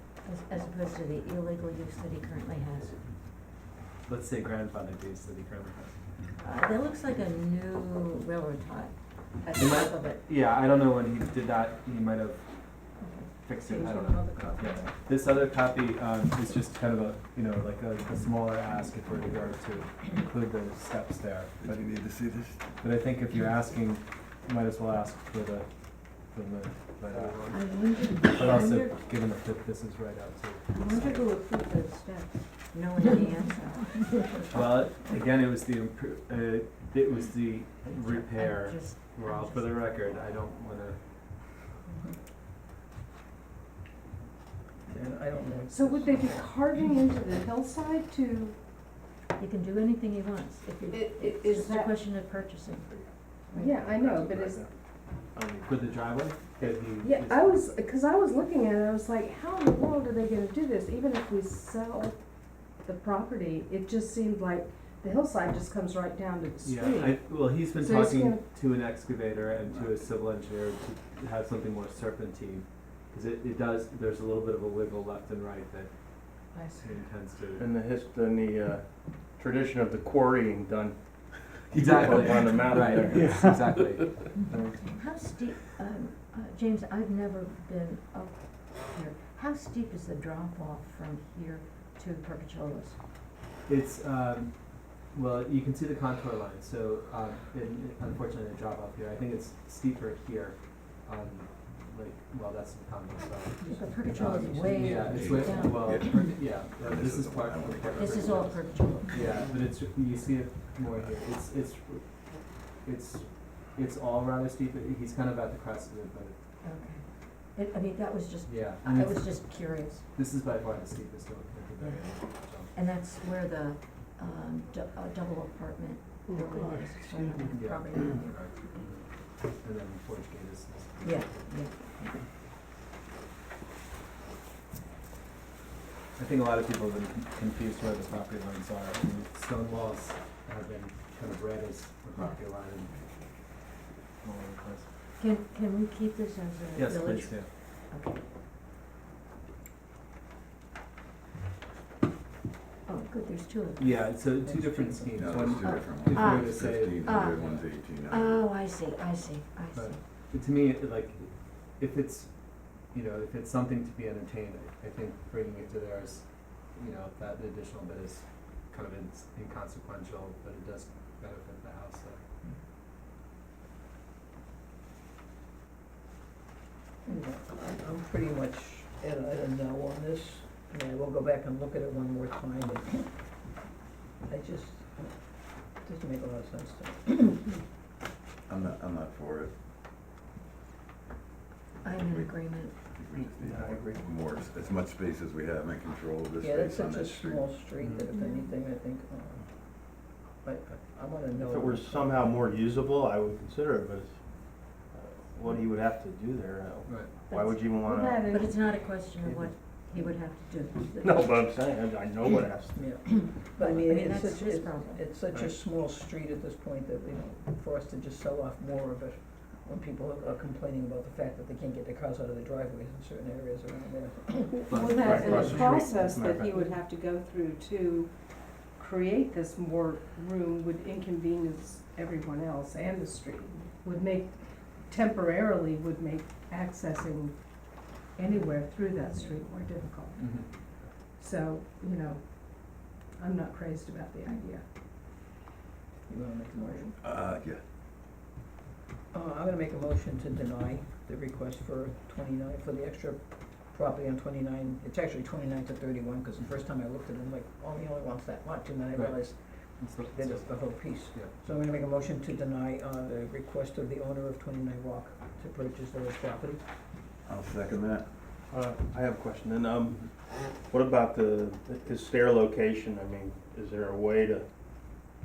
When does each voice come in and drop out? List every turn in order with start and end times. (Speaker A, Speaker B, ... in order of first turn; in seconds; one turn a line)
Speaker A: 0.2-3.0
Speaker B: 4.0-6.0
Speaker A: 6.4-10.2
Speaker B: 9.6-12.4
Speaker A: 13.0-14.4
Speaker B: 13.4-21.8
Speaker C: 13.6-14.8
Speaker D: 21.6-22.6
Speaker B: 22.8-31.3
Speaker A: 27.5-29.0
Speaker A: 30.7-34.5
Speaker B: 34.5-41.0
Speaker A: 37.9-39.8
Speaker E: 44.9-46.4
Speaker C: 45.7-48.6
Speaker A: 49.4-52.9
Speaker C: 50.9-52.0
Speaker F: 52.9-53.2
Speaker A: 53.5-53.8
Speaker C: 53.5-54.6
Speaker F: 53.7-55.9
Speaker B: 55.7-57.6
Speaker C: 57.0-68.4
Speaker B: 66.6-77.6
Speaker C: 76.5-76.9
Speaker F: 77.6-83.4
Speaker B: 81.7-84.5
Speaker A: 84.4-93.0
Speaker F: 84.5-84.9
Speaker B: 93.7-116.4
Speaker E: 103.6-105.0
Speaker A: 103.7-106.3
Speaker D: 105.0-108.6
Speaker A: 107.9-109.5
Speaker A: 116.6-120.0
Speaker B: 118.5-119.5
Speaker B: 120.1-122.7
Speaker A: 121.8-128.9
Speaker B: 127.5-131.5
Speaker A: 131.0-132.3
Speaker B: 136.2-143.0
Speaker B: 144.2-144.9
Speaker A: 145.2-148.2
Speaker B: 146.8-147.5
Speaker A: 152.9-154.0
Speaker B: 153.8-157.7
Speaker E: 154.4-155.3
Speaker D: 155.2-158.3
Speaker A: 155.4-160.0
Speaker B: 159.7-172.2
Speaker E: 177.1-183.3
Speaker E: 184.2-187.6
Speaker D: 188.5-189.5
Speaker A: 191.8-192.8
Speaker D: 191.9-197.4
Speaker F: 193.2-194.1
Speaker E: 196.4-202.2
Speaker B: 197.8-198.1
Speaker A: 198.1-198.5
Speaker F: 201.4-208.3
Speaker C: 207.3-209.0
Speaker A: 208.2-211.4
Speaker F: 209.2-209.5
Speaker F: 211.0-213.4
Speaker E: 212.8-225.6
Speaker A: 213.6-215.0
Speaker C: 224.6-244.7
Speaker B: 224.7-226.6
Speaker F: 224.8-226.5
Speaker B: 240.2-240.8
Speaker E: 246.1-247.0
Speaker C: 246.5-246.9
Speaker D: 247.0-247.6
Speaker E: 249.1-266.6
Speaker B: 258.9-259.2
Speaker B: 259.8-261.3
Speaker D: 267.3-268.1
Speaker F: 268.5-274.5